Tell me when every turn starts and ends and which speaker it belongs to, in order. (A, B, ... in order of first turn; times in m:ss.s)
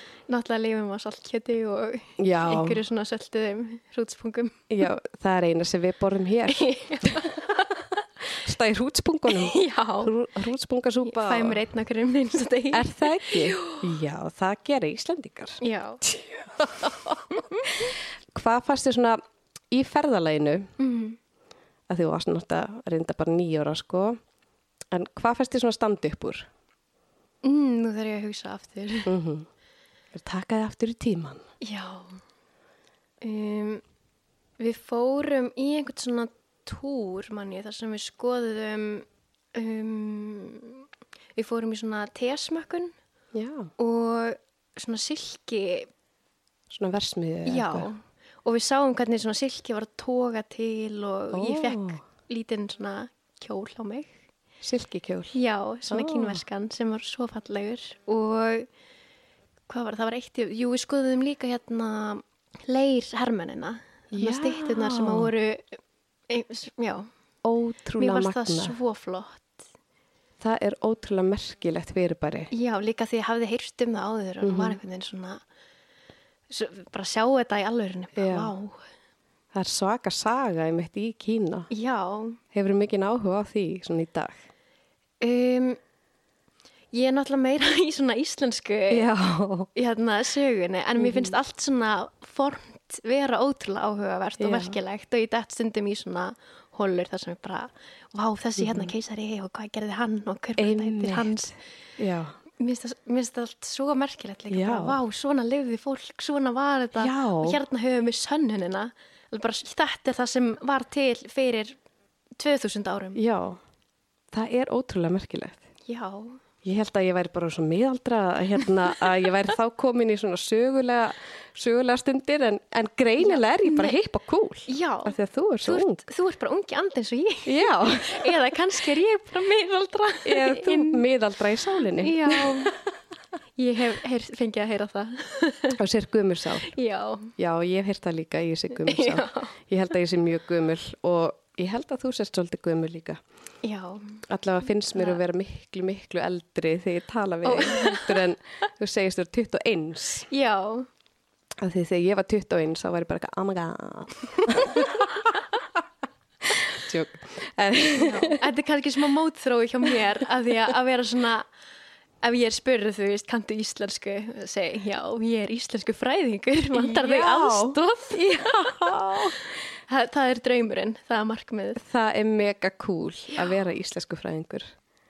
0:00.3-0:04.7 A
0:02.2-0:02.8 B
0:04.7-0:07.4 B
0:06.5-0:07.9 A
0:08.3-0:11.6 B
0:09.3-0:10.1 A
0:11.1-0:13.8 A
0:12.7-0:19.2 B
0:15.6-0:16.0 A
0:17.4-0:17.8 A
0:19.7-0:20.7 B
0:20.8-0:21.2 A
0:21.9-0:24.2 B
0:24.9-0:26.5 B
0:27.4-0:29.1 A
0:29.1-0:29.5 B
0:30.1-0:31.4 B
0:31.6-0:32.2 A
0:33.2-0:33.8 A
0:34.6-0:42.9 A
0:43.3-0:43.7 B
0:43.8-0:45.9 A
0:46.7-0:47.9 B
0:47.5-0:54.2 A
0:51.3-0:52.0 B
0:54.6-0:56.4 B
0:55.3-0:58.7 A
0:59.7-1:05.8 A
1:04.1-1:05.3 B
1:06.3-1:07.1 A
1:07.4-1:08.8 B
1:08.0-1:09.7 A
1:10.4-1:12.5 B
1:12.5-1:15.4 A
1:14.4-1:14.8 B
1:16.5-1:18.8 A
1:18.2-1:18.5 B
1:19.5-1:21.7 B
1:21.7-1:22.4 A
1:22.5-1:24.4 B
1:25.2-1:25.8 A
1:26.9-1:29.1 A
1:28.9-1:29.7 B
1:29.7-1:41.5 A
1:31.0-1:31.4 B
1:34.4-1:34.8 B
1:38.6-1:38.9 B
1:40.6-1:42.4 B
1:42.6-1:51.8 A
1:44.5-1:45.0 B
1:47.0-1:47.6 B
1:52.4-1:53.2 A
1:53.2-1:53.6 B
1:54.3-1:55.6 B
1:55.9-1:56.4 A
1:56.6-2:06.0 B
2:03.2-2:04.0 A
2:04.7-2:11.0 A
2:07.5-2:08.5 B
2:10.2-2:12.8 B
2:12.0-2:12.8 A
2:13.6-2:15.8 A
2:15.7-2:16.7 B
2:16.6-2:17.3 A
2:17.4-2:23.2 B
2:18.8-2:19.5 A
2:23.6-2:24.2 A
2:24.3-2:30.3 B
2:25.0-2:25.2 A
2:27.4-2:28.2 A
2:30.3-2:30.9 A
2:31.6-2:35.4 B
2:36.5-2:38.4 B
2:38.0-2:41.5 A
2:42.2-2:49.3 A
2:46.7-2:49.4 B
2:49.9-2:51.8 A
2:51.8-2:54.7 B
2:53.3-2:53.6 A